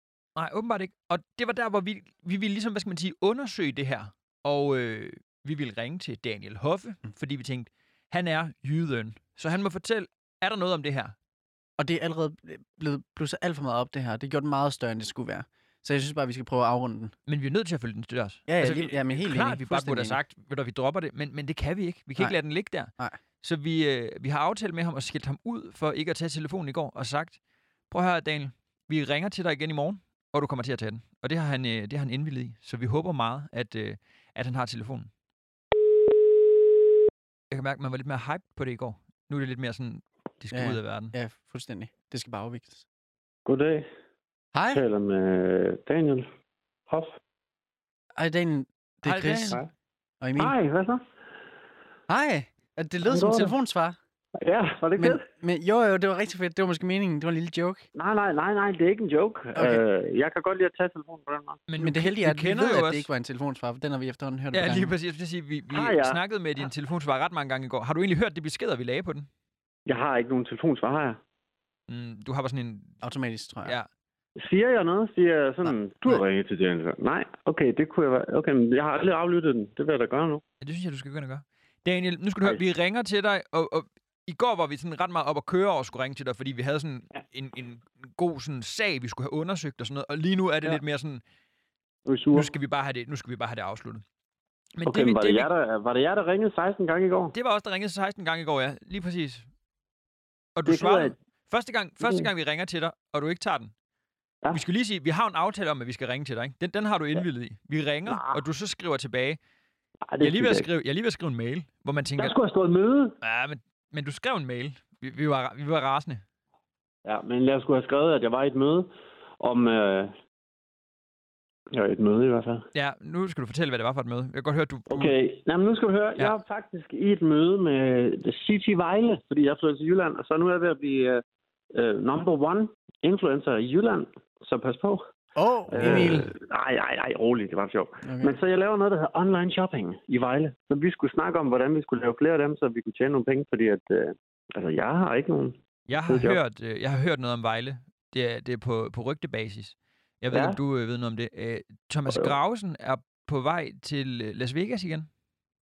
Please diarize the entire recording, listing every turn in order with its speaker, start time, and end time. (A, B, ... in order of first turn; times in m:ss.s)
0:00.4-0:11.1 A
0:11.8-0:17.1 B
0:17.3-0:22.9 A
0:18.5-0:20.2 B
0:23.4-0:27.4 A
0:27.9-0:35.1 A
0:37.5-0:41.1 A
0:40.5-0:42.8 B
0:43.4-0:43.9 C
0:44.5-0:44.8 B
0:44.7-0:46.3 C
0:46.9-0:47.2 C
0:48.1-0:49.6 B
0:49.0-0:49.6 A
0:50.2-0:50.5 B
0:50.4-0:51.0 C
0:52.1-0:54.0 B
0:53.0-0:53.5 C
0:54.4-0:55.2 C
0:55.0-0:57.8 B
0:57.9-1:01.6 C
0:59.5-0:59.8 B
1:01.7-1:03.1 A
1:01.8-1:04.9 B
1:04.5-1:09.3 A
1:05.7-1:06.2 C
1:09.9-1:11.2 C
1:11.9-1:13.0 A
1:13.0-1:13.7 B
1:14.4-1:20.4 C
1:15.7-1:16.2 B
1:20.6-1:31.2 A
1:32.0-1:32.5 C
1:32.3-1:34.0 A
1:34.8-1:35.5 A
1:34.8-1:37.3 C
1:37.3-1:39.5 A
1:40.6-1:43.7 A
1:40.7-1:41.1 C
1:44.5-1:49.4 A
1:48.1-1:48.4 C
1:50.1-1:50.7 C
1:50.2-1:52.3 A
1:52.2-1:53.2 C
1:53.2-1:56.2 A
1:57.0-1:58.9 C
1:59.4-2:00.1 C
2:01.7-2:02.7 C
2:02.7-2:05.1 A
2:04.9-2:15.0 C
2:15.4-2:16.3 B
2:15.7-2:26.4 C
2:15.8-2:16.1 A
2:18.0-2:18.3 B
2:25.9-2:35.1 A
2:30.3-2:30.6 C